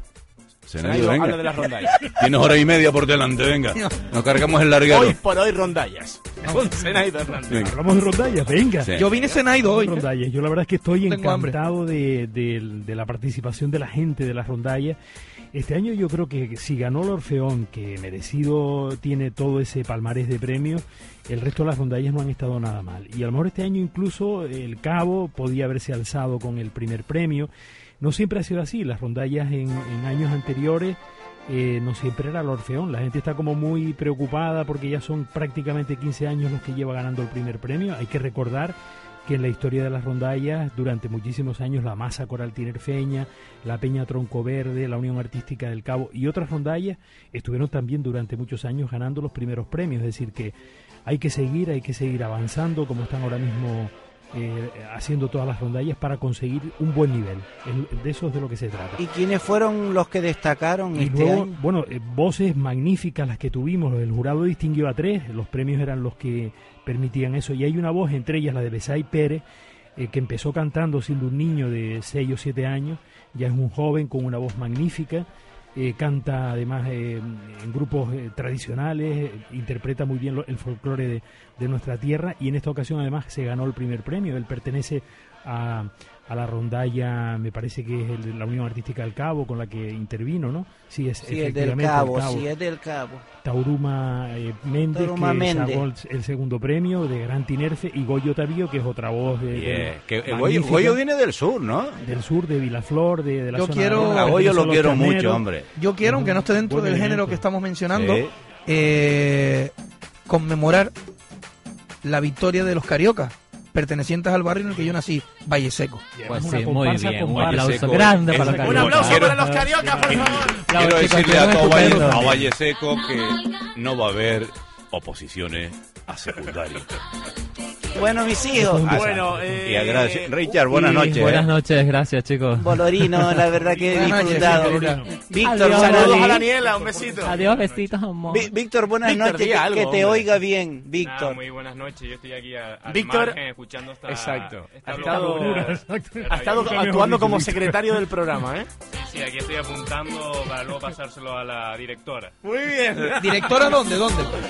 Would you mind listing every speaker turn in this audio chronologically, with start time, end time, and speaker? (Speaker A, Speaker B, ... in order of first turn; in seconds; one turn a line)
Speaker A: 0.7-5.2
Speaker B: 0.8-1.9
Speaker B: 4.9-7.8
Speaker C: 6.5-6.9
Speaker A: 7.5-7.8
Speaker C: 7.6-15.0
Speaker A: 8.8-9.2
Speaker D: 8.9-10.1
Speaker D: 11.1-11.6
Speaker C: 15.5-27.5
Speaker C: 28.0-50.5
Speaker C: 51.1-59.0
Speaker E: 59.0-61.5
Speaker C: 60.9-69.4
Speaker C: 70.0-92.5
Speaker E: 91.2-93.2
Speaker C: 93.4-101.0
Speaker E: 94.9-95.8
Speaker A: 99.5-102.0
Speaker C: 102.0-105.4
Speaker D: 103.5-104.4
Speaker A: 104.0-105.7
Speaker D: 105.8-109.7
Speaker C: 106.0-107.4
Speaker A: 107.9-108.3
Speaker D: 110.3-110.9
Speaker D: 112.0-116.0
Speaker C: 116.1-118.8
Speaker F: 116.3-119.4
Speaker A: 117.3-126.9
Speaker B: 118.5-120.7
Speaker C: 119.8-120.5
Speaker F: 120.7-122.4
Speaker C: 121.7-122.5
Speaker E: 128.0-129.0
Speaker C: 128.6-129.5
Speaker B: 128.8-130.6
Speaker A: 128.9-131.5
Speaker F: 130.7-133.2
Speaker E: 132.6-136.5
Speaker D: 133.9-135.0
Speaker C: 134.0-135.2
Speaker F: 135.4-136.5
Speaker B: 135.7-137.4
Speaker G: 136.6-137.9
Speaker F: 137.2-138.5
Speaker E: 138.3-141.4
Speaker B: 139.0-140.3
Speaker G: 141.0-146.8
Speaker B: 142.9-143.4
Speaker B: 144.1-148.7
Speaker C: 144.9-148.0
Speaker G: 148.9-152.3
Speaker B: 152.4-153.8
Speaker D: 153.2-154.3